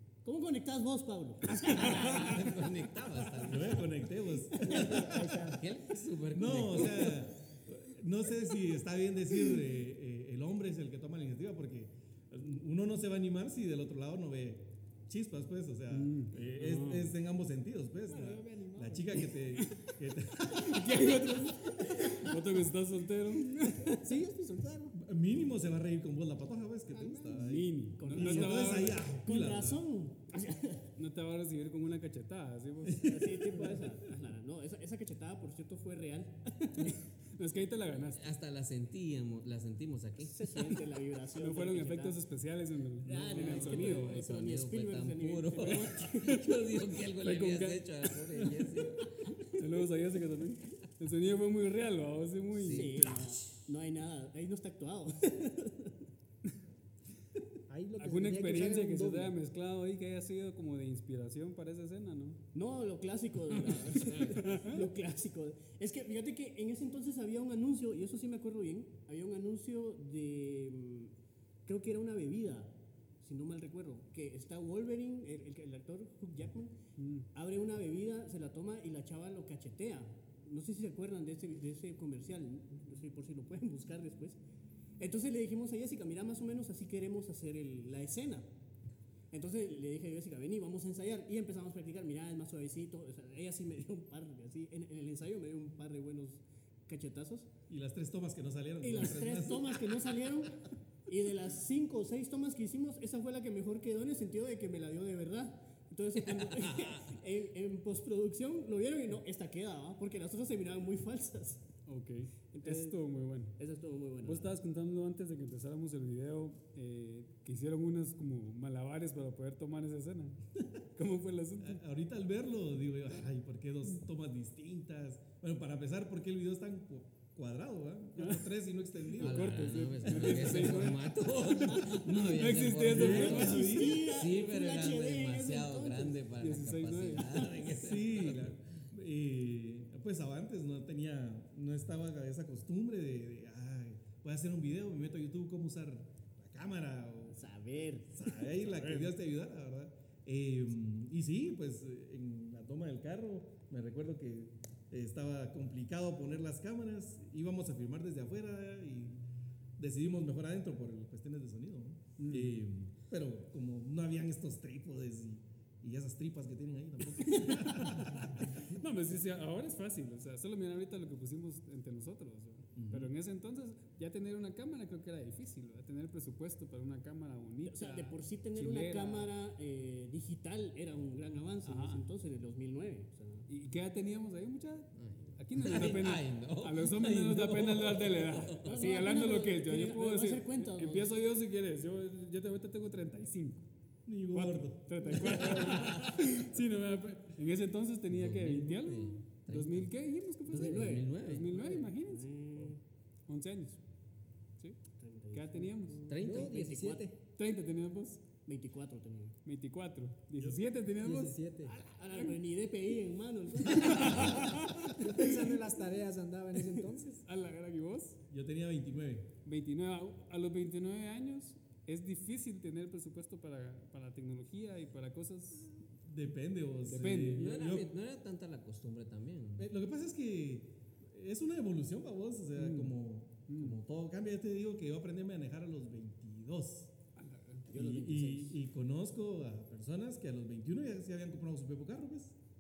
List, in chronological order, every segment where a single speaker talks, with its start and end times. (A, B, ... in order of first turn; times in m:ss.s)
0:00.2-0:02.4 A
0:01.7-0:02.1 B
0:01.7-0:03.9 C
0:03.4-0:05.2 D
0:04.4-0:04.9 A
0:04.6-0:05.6 E
0:05.2-0:07.3 C
0:06.3-0:21.1 D
0:15.9-0:17.2 B
0:18.1-0:19.3 E
0:19.5-0:19.9 B
0:20.4-0:24.0 B
0:23.8-0:25.0 E
0:24.9-0:29.8 D
0:26.9-0:27.4 E
0:27.4-0:29.1 B
0:28.0-0:30.9 A
0:31.0-0:33.4 B
0:32.9-0:33.7 D
0:33.0-0:37.0 A
0:37.4-0:38.3 B
0:38.1-0:40.6 C
0:40.2-0:42.2 A
0:41.4-0:44.2 B
0:43.0-0:46.5 A
0:43.3-0:49.4 C
0:47.2-0:47.9 B
0:49.5-0:52.9 B
0:52.5-0:53.6 C
0:52.7-0:56.0 A
0:57.7-0:59.3 E
0:58.0-1:02.4 B
1:02.5-1:11.1 A
1:04.0-1:04.4 C
1:04.3-1:04.8 B
1:11.7-1:16.8 A
1:17.0-1:17.3 B
1:17.3-1:24.4 A
1:25.0-1:28.5 A
1:29.3-1:37.5 A
1:37.7-1:39.8 D
1:38.8-1:51.7 A
1:46.4-1:47.0 C
1:51.9-1:53.6 B
1:52.5-1:53.0 A
1:53.6-1:54.6 A
1:54.2-2:00.4 B
2:01.0-2:01.8 B
2:01.6-2:09.6 D
2:08.2-2:08.5 B
2:09.1-2:13.9 B
2:09.2-2:18.6 C
2:12.9-2:14.0 D
2:13.0-2:16.2 A
2:16.4-2:17.5 B
2:17.7-2:27.4 D
2:27.3-2:28.4 A
2:28.1-2:39.2 D
2:28.7-2:29.1 B
2:39.8-2:48.8 D
2:42.2-2:42.7 B
2:47.6-2:59.3 B
2:52.8-2:53.1 D
2:57.7-3:03.5 A
3:01.6-3:02.1 B
3:03.5-3:13.6 B
3:04.9-3:08.7 C
3:08.6-3:11.2 A
3:14.1-3:16.0 D
3:14.3-3:22.7 B
3:15.7-3:16.0 C
3:18.1-3:19.9 C
3:20.4-3:21.6 C
3:20.5-3:22.8 A
3:23.3-3:23.8 B
3:25.0-3:27.1 A
3:25.3-3:26.0 B
3:26.1-3:26.6 C
3:26.2-3:27.2 E
3:27.4-3:28.2 B
3:28.5-3:29.4 A
3:29.4-3:31.4 B
3:31.0-3:31.8 E
3:31.6-3:34.6 A
3:33.7-3:35.0 B
3:35.0-3:37.2 E
3:35.2-3:35.6 A
3:37.2-3:38.2 B
3:38.3-3:39.3 D
3:39.4-3:45.8 B
3:46.0-3:47.9 D
3:46.8-3:47.6 B
3:47.4-3:49.7 C
3:49.6-3:56.9 D
3:52.6-3:53.0 B
3:53.5-3:53.8 B
3:57.2-3:57.6 B
3:57.7-3:58.6 A
3:57.7-4:02.4 D